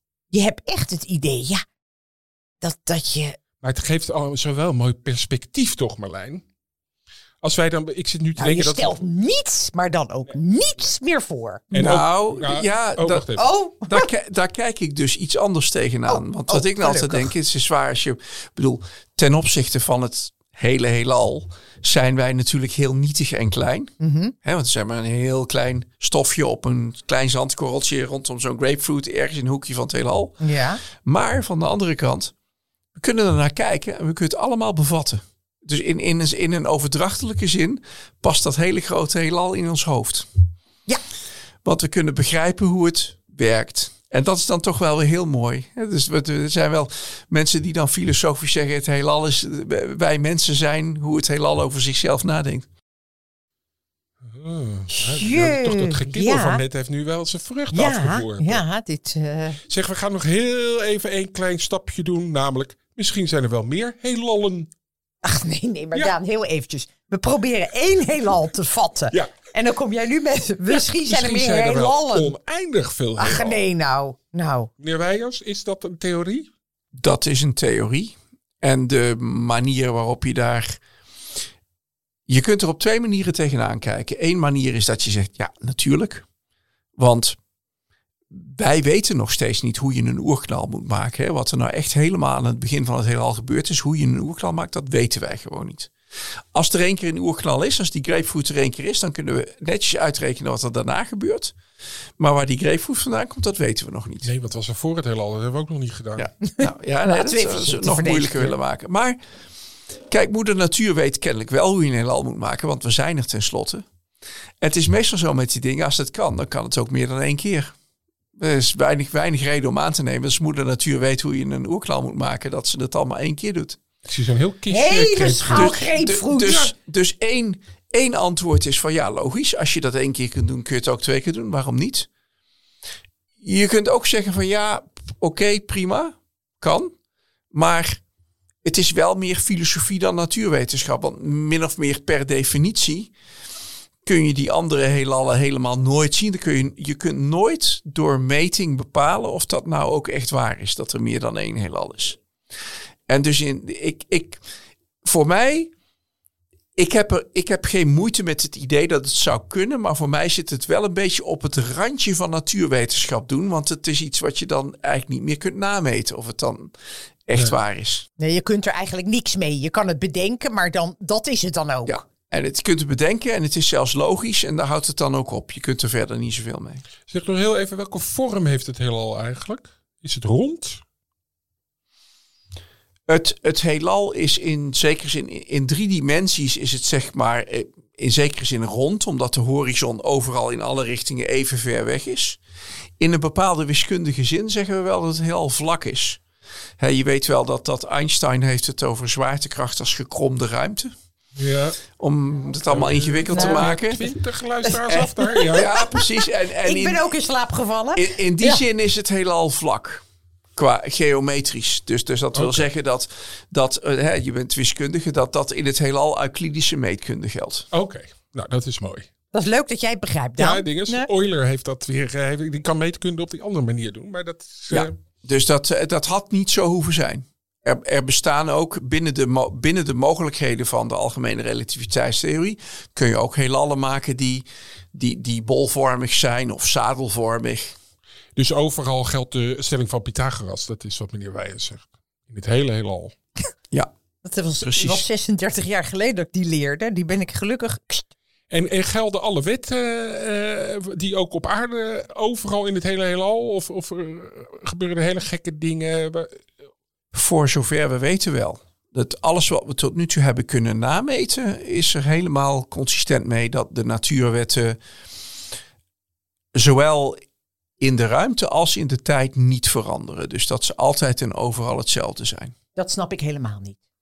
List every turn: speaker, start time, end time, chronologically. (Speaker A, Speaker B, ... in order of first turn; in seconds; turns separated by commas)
Speaker A: 0.3-1.6, Speaker A: 2.6-3.4, Speaker B: 3.6-6.4, Speaker B: 7.4-9.0, Speaker A: 8.4-11.7, Speaker C: 11.7-13.3, Speaker B: 11.7-13.5, Speaker A: 13.4-14.1, Speaker C: 13.9-23.9, Speaker A: 16.1-17.3, Speaker A: 24.0-24.4, Speaker C: 24.4-32.3, Speaker A: 30.4-30.8, Speaker C: 33.0-40.3, Speaker C: 41.6-52.7, Speaker B: 54.2-58.6, Speaker A: 54.9-56.6, Speaker A: 57.7-59.6, Speaker B: 59.7-64.7, Speaker A: 65.2-72.3, Speaker B: 70.7-73.6, Speaker A: 73.2-74.7, Speaker B: 74.8-76.5, Speaker C: 77.0-80.8, Speaker C: 82.3-86.3, Speaker C: 87.0-87.4, Speaker C: 88.3-95.9, Speaker C: 96.5-101.6, Speaker C: 102.2-104.3, Speaker B: 104.2-106.3, Speaker C: 106.2-109.2, Speaker A: 106.4-108.6, Speaker C: 110.1-113.9, Speaker C: 114.6-117.7, Speaker C: 118.4-123.8, Speaker B: 124.1-125.9, Speaker A: 124.7-126.7, Speaker C: 125.5-132.1, Speaker C: 133.4-136.9, Speaker C: 137.5-138.0, Speaker C: 138.6-143.1, Speaker C: 144.0-152.2, Speaker C: 153.1-154.4, Speaker C: 155.0-155.7, Speaker C: 156.8-166.7, Speaker C: 167.3-168.1, Speaker A: 168.2-172.0, Speaker C: 171.9-176.8, Speaker B: 177.1-180.8, Speaker C: 183.1-192.4, Speaker C: 193.0-196.2, Speaker C: 196.8-200.9, Speaker B: 201.4-201.8, Speaker C: 202.0-204.0, Speaker B: 202.7-205.7, Speaker A: 203.3-203.7, Speaker A: 204.8-208.6, Speaker C: 205.5-207.1, Speaker C: 207.9-210.0, Speaker C: 210.6-217.7, Speaker B: 212.3-212.7, Speaker B: 217.7-219.1, Speaker A: 219.3-221.1, Speaker B: 220.4-225.0, Speaker C: 224.7-237.7, Speaker B: 238.4-243.2, Speaker A: 244.2-248.1, Speaker C: 244.6-245.1, Speaker B: 248.5-256.5, Speaker C: 257.1-264.8, Speaker C: 266.5-267.2, Speaker C: 267.8-272.6, Speaker A: 272.8-273.8